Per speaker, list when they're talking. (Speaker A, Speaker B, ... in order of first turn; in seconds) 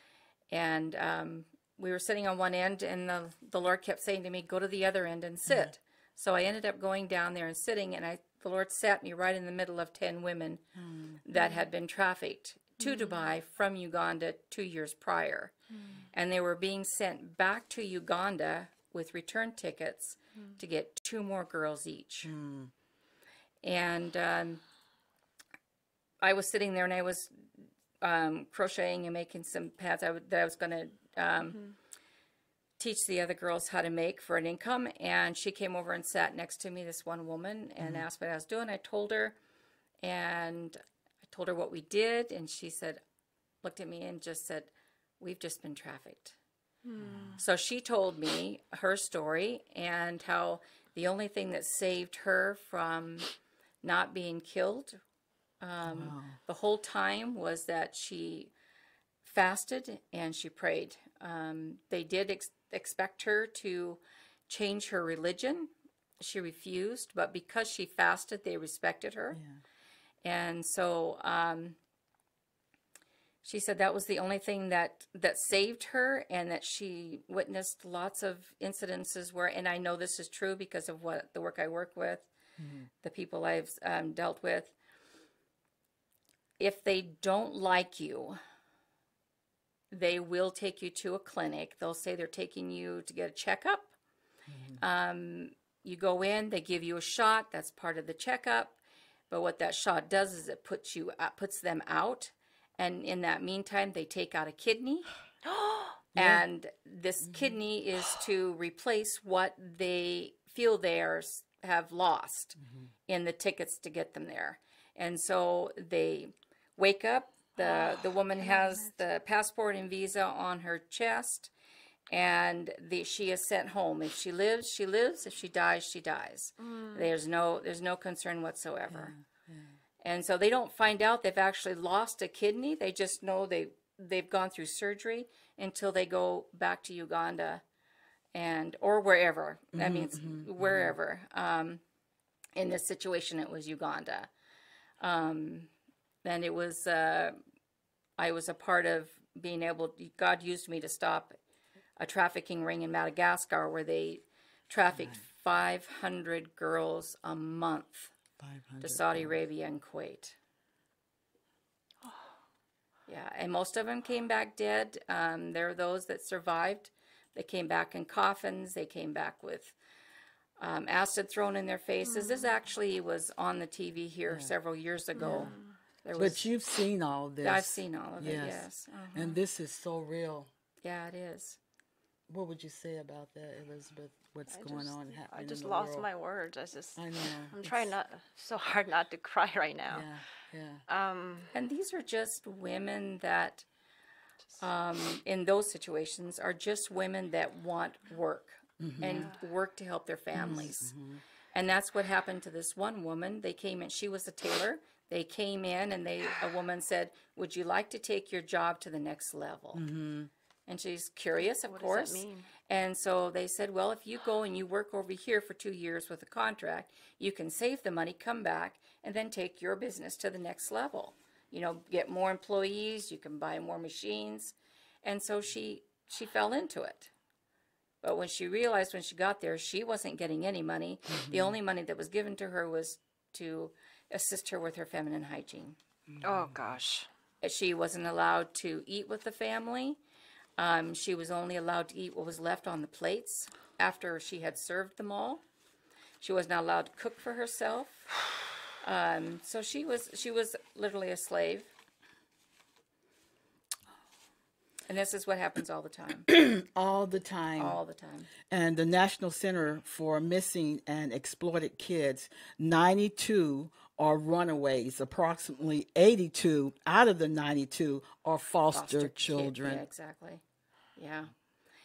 Speaker A: 0.5-10.6, 11.2-15.5, 16.1-22.3, 23.6-24.6, 26.2-27.3, 28.0-31.6, 32.8-39.4, 40.0-43.0, 43.6-46.4, 47.4-53.3, 53.8-55.0, 55.6-58.5, 59.2-69.4, 70.2-71.8, 73.4-82.3, 83.0-84.7, 86.6-88.4, 89.9-93.9, 94.8-98.8, 99.3-105.1, 106.2-121.5, 122.1-129.1, 130.0-137.6, 138.3-141.8, 142.5-144.3, 145.0-145.7, 146.2-147.3, 148.2-151.4, 152.0-158.1, 158.8-160.3, 163.1-169.8, 170.6-176.5, 177.4-179.3, 180.8-181.6, 191.5-193.7, 194.6-200.9, 201.5-209.8, 210.7-227.1, 228.0-235.8, 237.4-240.0, 240.6-245.4, 246.2-248.1, 248.8-251.7, 254.9-256.3, 257.6-258.3, 268.7-270.4, 271.0-271.3
Speaker B: 10.8-11.2, 22.2-22.7, 37.8-38.0, 47.0-47.4, 55.8-56.4, 69.3-69.6, 82.6-82.9, 94.5-94.8, 106.1-106.4, 107.2-107.6, 112.6-112.9, 128.9-129.7, 139.7-140.9, 154.9-155.2, 158.4-159.4, 175.2-175.5, 176.1-180.5, 182.3-186.1, 187.0-187.9, 189.9-190.8, 198.8-199.3, 200.3-201.2, 209.7-210.3, 231.1-231.6, 236.1-236.6, 256.3-257.8, 258.5-269.8
Speaker C: 11.3-11.7, 12.8-13.3, 15.7-16.0, 46.8-47.3, 105.4-106.0, 117.6-118.9, 126.6-127.1, 172.1-172.5, 175.2-175.7, 184.5-190.1, 190.9-191.5, 199.0-199.3, 211.4-212.5, 236.2-237.1